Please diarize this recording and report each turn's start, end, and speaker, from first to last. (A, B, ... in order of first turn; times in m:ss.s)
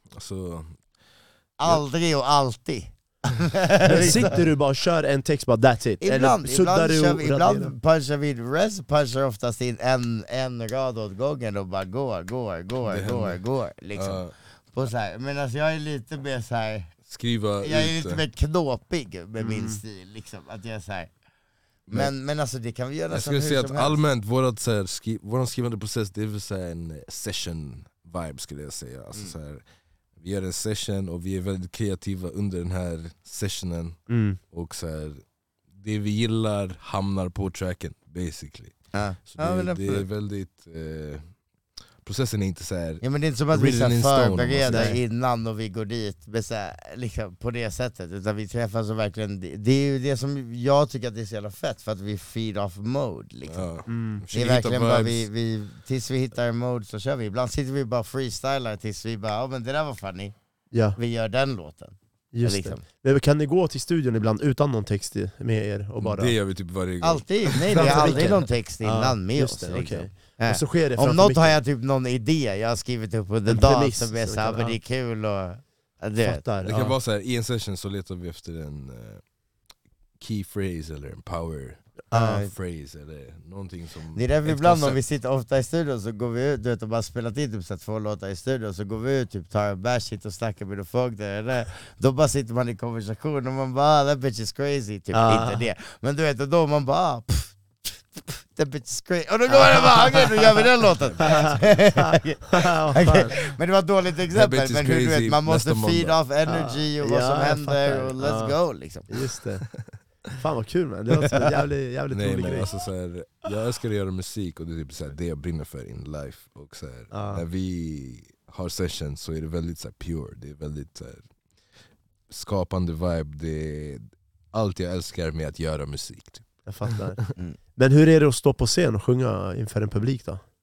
0:00.2-0:00.8 A
0:01.6-0:04.4 B
0:03.8-0:07.7 C
0:06.0-0:16.9 B
0:12.8-0:13.4 A
0:14.0-0:14.3 A
0:17.1-0:18.2 A
0:17.6-0:21.1 B
0:19.4-0:19.8 C
0:21.9-0:24.0 B
0:23.1-0:29.6 A
0:30.2-0:35.2 A
0:34.1-0:34.4 C
0:35.8-0:41.3 A
0:38.9-0:40.1 B
0:42.0-0:44.9 A
0:43.0-0:53.7 B
0:44.7-0:45.0 C
0:53.5-0:55.3 A
0:53.9-0:54.2 C
0:54.3-1:00.4 B
1:00.7-1:01.0 C
1:00.9-1:02.8 B
1:02.3-1:06.4 C
1:06.0-1:08.4 A
1:07.0-1:16.4 B
1:07.7-1:11.6 C
1:13.5-1:14.8 C
1:16.2-1:17.0 C
1:16.6-1:19.2 A
1:20.2-1:25.0 A
1:22.1-1:22.4 C
1:22.1-1:22.5 B
1:24.2-1:49.1 B
1:35.1-1:35.6 C
1:39.5-1:40.4 C
1:41.2-1:43.5 C
1:44.4-1:46.2 A
1:46.4-1:48.6 C
1:49.1-1:49.7 C
1:50.4-1:52.7 C
1:52.1-2:01.3 A
1:57.1-1:57.4 C
2:02.3-2:07.0 A
2:06.7-2:07.2 C
2:07.8-2:10.4 C